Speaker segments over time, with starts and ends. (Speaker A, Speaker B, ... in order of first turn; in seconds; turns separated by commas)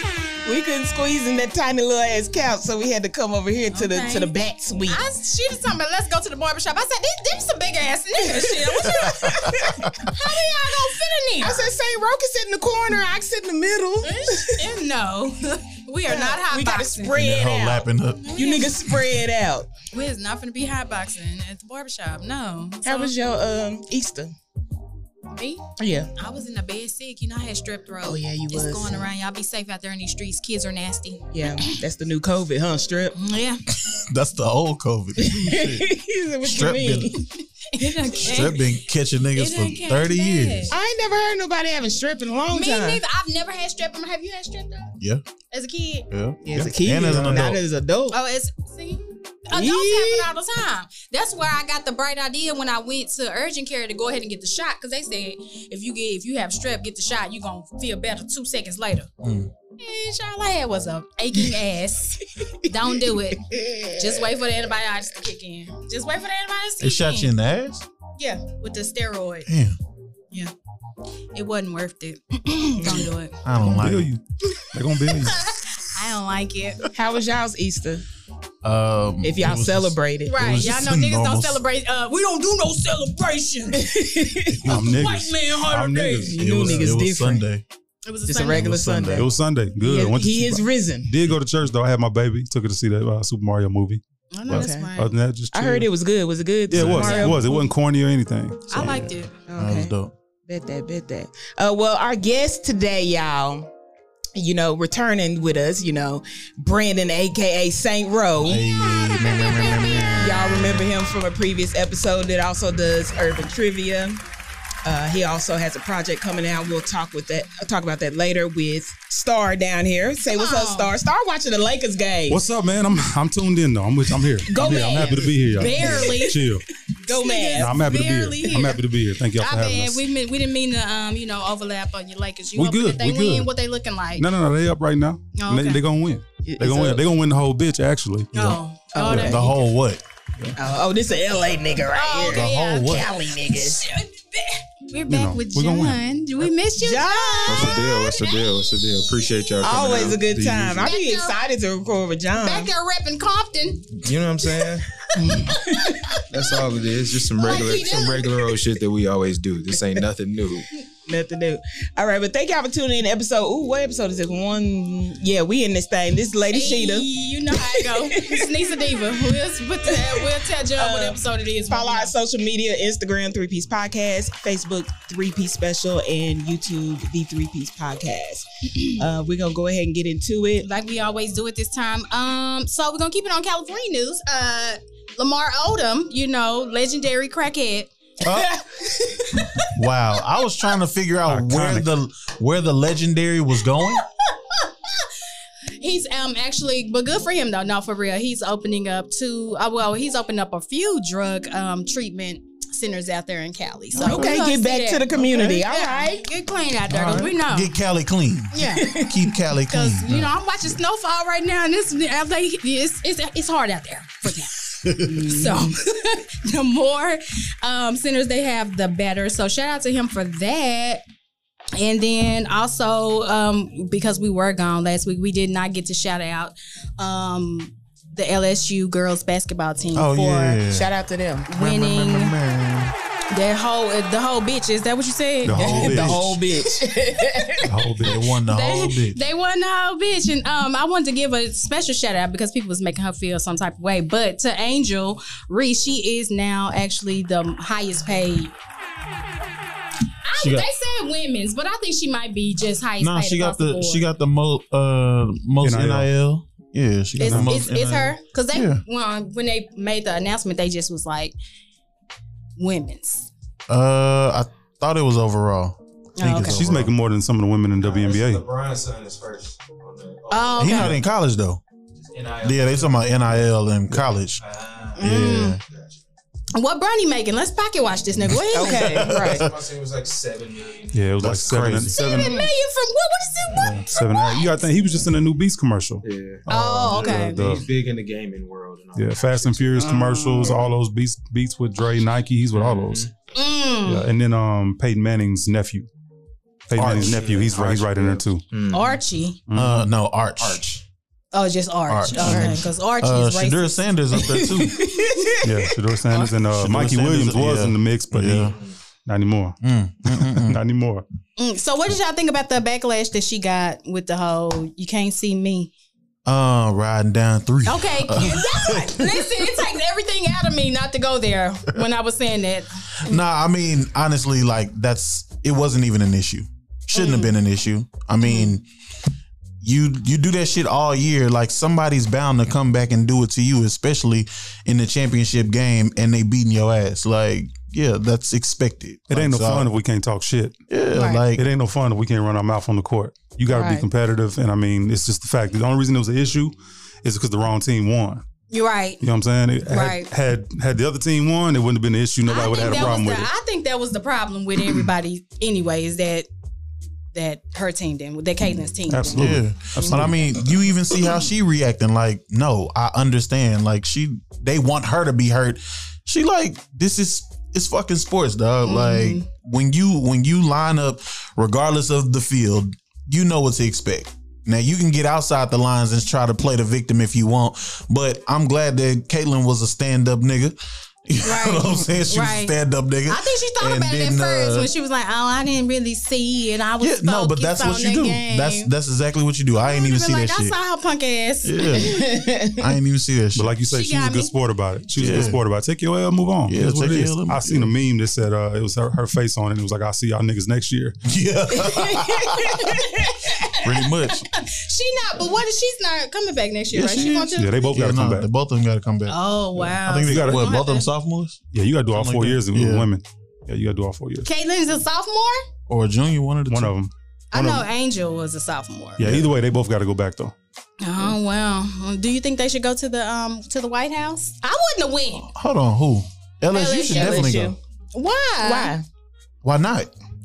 Speaker A: 0.4-5.0, Speaker B: 3.7-4.3, Speaker B: 4.8-11.7, Speaker A: 8.2-9.9, Speaker C: 9.0-9.9, Speaker A: 11.4-14.6, Speaker B: 14.0-17.2, Speaker A: 16.1-19.7, Speaker C: 17.1-18.3, Speaker B: 18.2-18.8, Speaker B: 19.9-23.1, Speaker A: 22.8-24.3, Speaker B: 25.3-25.6, Speaker A: 25.8-26.1, Speaker B: 26.1-31.7, Speaker A: 28.0-29.1, Speaker A: 31.3-33.1, Speaker B: 33.1-33.6, Speaker C: 33.7-35.9, Speaker A: 35.2-37.2, Speaker C: 36.4-37.2, Speaker B: 37.2-40.7, Speaker C: 38.0-40.7, Speaker A: 40.7-43.0, Speaker B: 42.5-45.0, Speaker B: 45.5-46.1, Speaker C: 46.1-47.6, Speaker A: 46.4-48.2, Speaker B: 48.1-59.1, Speaker A: 49.5-50.3, Speaker C: 59.2-59.5, Speaker B: 59.8-67.3, Speaker A: 63.1-64.3, Speaker C: 66.8-67.8, Speaker B: 68.2-69.5, Speaker C: 69.5-69.8, Speaker B: 71.3-73.4, Speaker A: 72.8-73.1, Speaker C: 73.4-74.1, Speaker D: 73.7-75.4, Speaker B: 75.1-76.8, Speaker A: 76.9-78.0, Speaker C: 78.6-81.6, Speaker A: 79.2-80.4, Speaker B: 80.3-84.1, Speaker A: 83.7-84.7, Speaker C: 84.5-85.2, Speaker D: 84.7-86.8, Speaker B: 84.7-86.3, Speaker A: 86.3-87.4, Speaker C: 86.3-87.6, Speaker B: 88.0-88.8, Speaker A: 88.3-91.3, Speaker C: 88.5-89.3, Speaker D: 89.1-94.0, Speaker B: 94.3-95.1, Speaker A: 94.5-94.9, Speaker D: 94.9-95.9, Speaker A: 95.5-97.6, Speaker D: 96.7-98.9, Speaker B: 97.0-97.5, Speaker B: 98.7-99.3, Speaker C: 98.7-100.1, Speaker A: 99.5-99.9, Speaker A: 100.5-103.7, Speaker A: 104.3-108.6, Speaker C: 108.4-110.9, Speaker B: 109.0-110.3, Speaker A: 110.2-114.2, Speaker A: 114.8-122.4, Speaker B: 120.3-120.9, Speaker D: 122.3-126.6, Speaker A: 124.5-126.3, Speaker B: 125.6-126.4, Speaker A: 127.0-127.8, Speaker B: 127.1-128.8, Speaker D: 127.6-130.0, Speaker B: 129.4-134.3, Speaker D: 132.6-133.5, Speaker D: 134.2-139.3, Speaker B: 135.3-135.8, Speaker A: 136.4-137.0, Speaker B: 138.3-139.6, Speaker A: 138.9-139.4, Speaker C: 139.2-140.0, Speaker A: 140.6-143.8, Speaker B: 141.9-149.4, Speaker C: 142.3-143.1, Speaker D: 145.1-146.0, Speaker A: 146.7-147.8, Speaker E: 147.5-150.3, Speaker A: 149.6-152.7, Speaker D: 150.3-150.9, Speaker B: 150.8-151.4, Speaker B: 152.4-156.3, Speaker E: 154.0-154.8, Speaker A: 155.2-156.2, Speaker E: 156.3-160.7, Speaker B: 157.3-158.4, Speaker A: 161.1-169.1, Speaker B: 166.5-172.1, Speaker A: 169.8-180.7, Speaker B: 180.6-187.9, Speaker C: 188.2-188.5, Speaker A: 188.4-189.2, Speaker C: 189.7-194.0, Speaker D: 191.2-191.9, Speaker B: 194.5-195.1, Speaker B: 195.8-207.7, Speaker A: 203.9-206.3, Speaker C: 204.0-204.3, Speaker C: 206.9-210.3, Speaker B: 208.5-208.9, Speaker A: 208.7-209.2, Speaker B: 209.7-221.0, Speaker A: 215.1-215.6, Speaker B: 221.8-230.6, Speaker C: 229.9-230.9, Speaker A: 230.7-231.5, Speaker B: 231.5-232.3, Speaker C: 231.5-232.9, Speaker B: 233.3-235.7, Speaker D: 235.4-236.4, Speaker C: 235.5-236.4, Speaker A: 235.5-237.7, Speaker D: 237.6-238.2, Speaker C: 238.0-239.2, Speaker B: 238.4-248.5, Speaker B: 250.2-254.1, Speaker C: 250.4-250.7, Speaker C: 253.0-258.8, Speaker D: 255.6-256.1, Speaker B: 257.2-261.3, Speaker D: 257.2-257.5, Speaker B: 262.6-263.3, Speaker C: 263.7-266.9, Speaker B: 266.2-266.7, Speaker D: 266.4-268.4, Speaker E: 267.8-270.9, Speaker B: 270.3-270.9, Speaker C: 270.6-271.6, Speaker E: 272.1-272.9, Speaker C: 272.4-274.4, Speaker E: 274.4-276.0, Speaker B: 275.0-275.6, Speaker C: 275.0-275.6, Speaker B: 276.5-279.0, Speaker C: 278.3-279.5, Speaker A: 278.5-279.5, Speaker E: 278.9-281.8, Speaker D: 280.9-282.5, Speaker C: 281.2-282.0, Speaker B: 281.9-284.5, Speaker D: 283.5-287.6, Speaker E: 286.0-286.4, Speaker B: 286.5-287.4, Speaker C: 286.9-287.3, Speaker E: 287.1-290.7, Speaker D: 288.9-293.1, Speaker A: 289.8-290.5, Speaker E: 292.5-293.1, Speaker B: 293.3-294.0, Speaker D: 293.9-295.9, Speaker D: 296.7-298.4, Speaker C: 296.8-297.2, Speaker E: 296.8-299.0, Speaker B: 298.7-299.4, Speaker D: 299.5-299.9, Speaker C: 299.5-300.6, Speaker E: 300.4-300.8, Speaker B: 301.3-303.8, Speaker C: 301.9-304.9, Speaker A: 304.1-305.5, Speaker D: 305.4-311.0, Speaker C: 306.3-308.5, Speaker C: 309.6-310.6, Speaker B: 311.4-315.7, Speaker C: 316.2-319.6, Speaker B: 317.6-323.2, Speaker C: 323.0-328.6, Speaker B: 326.9-327.3, Speaker B: 328.2-328.5, Speaker C: 329.6-339.7, Speaker D: 339.1-340.5, Speaker C: 340.7-341.5, Speaker B: 340.9-341.2, Speaker D: 341.3-348.2, Speaker B: 343.5-343.9, Speaker B: 348.5-349.0, Speaker D: 349.0-353.3, Speaker B: 349.7-350.1, Speaker B: 352.2-356.3, Speaker B: 357.1-360.1, Speaker D: 358.9-360.4, Speaker C: 359.1-384.7, Speaker B: 368.6-369.2, Speaker B: 381.2-382.6, Speaker B: 383.1-388.7, Speaker C: 386.8-390.5, Speaker B: 389.6-392.0, Speaker C: 391.4-393.5, Speaker A: 391.8-392.6, Speaker D: 393.3-401.0, Speaker B: 393.7-394.3, Speaker C: 394.9-395.4, Speaker C: 396.5-397.7, Speaker C: 401.0-402.8, Speaker A: 401.5-403.1, Speaker B: 402.8-407.7, Speaker C: 403.5-404.2, Speaker C: 406.7-411.4, Speaker D: 407.4-408.3, Speaker B: 409.1-410.9, Speaker D: 410.0-410.5, Speaker D: 411.5-414.3, Speaker C: 411.9-412.9, Speaker B: 414.2-415.4, Speaker C: 415.7-416.7, Speaker D: 416.5-417.6, Speaker B: 417.3-419.0, Speaker C: 419.0-419.4, Speaker D: 419.0-420.3, Speaker B: 420.8-425.3, Speaker C: 425.3-427.5, Speaker B: 426.5-427.4, Speaker A: 426.6-427.6, Speaker B: 427.9-428.7, Speaker A: 428.4-428.8, Speaker C: 429.4-429.9